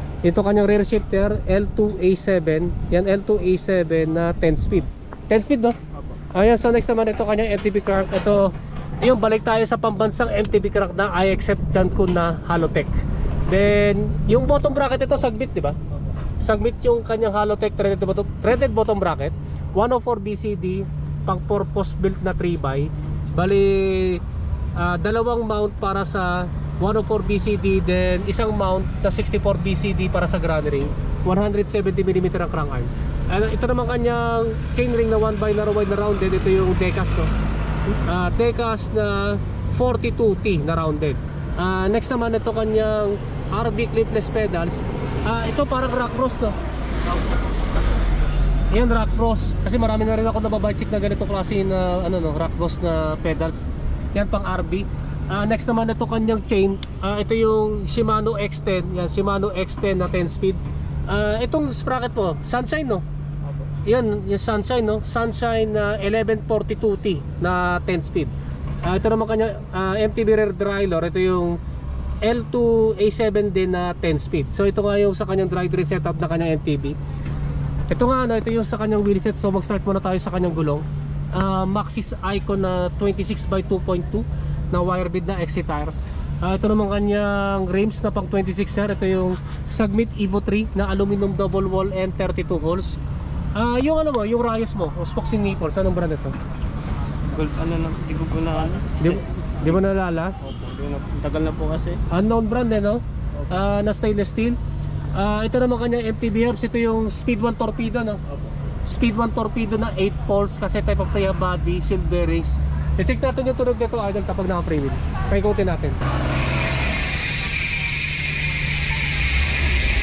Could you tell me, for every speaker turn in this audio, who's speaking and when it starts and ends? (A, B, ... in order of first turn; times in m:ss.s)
0:00.2-0:05.8 A
0:05.9-0:06.2 B
0:06.3-0:15.8 A
0:16.4-0:24.2 A
0:24.8-0:37.3 A
0:37.9-0:46.5 A
0:48.7-1:03.0 A
1:03.4-1:03.7 B
1:03.8-1:08.3 A
1:08.8-1:11.6 A
1:12.2-1:17.0 A
1:17.9-1:33.0 A
1:33.5-1:36.3 A
1:37.3-1:39.6 B
1:39.0-1:40.4 A
1:40.4-1:42.0 B
1:42.1-1:44.6 A
1:45.1-1:48.2 A
1:48.3-1:48.5 B
1:48.8-1:56.0 A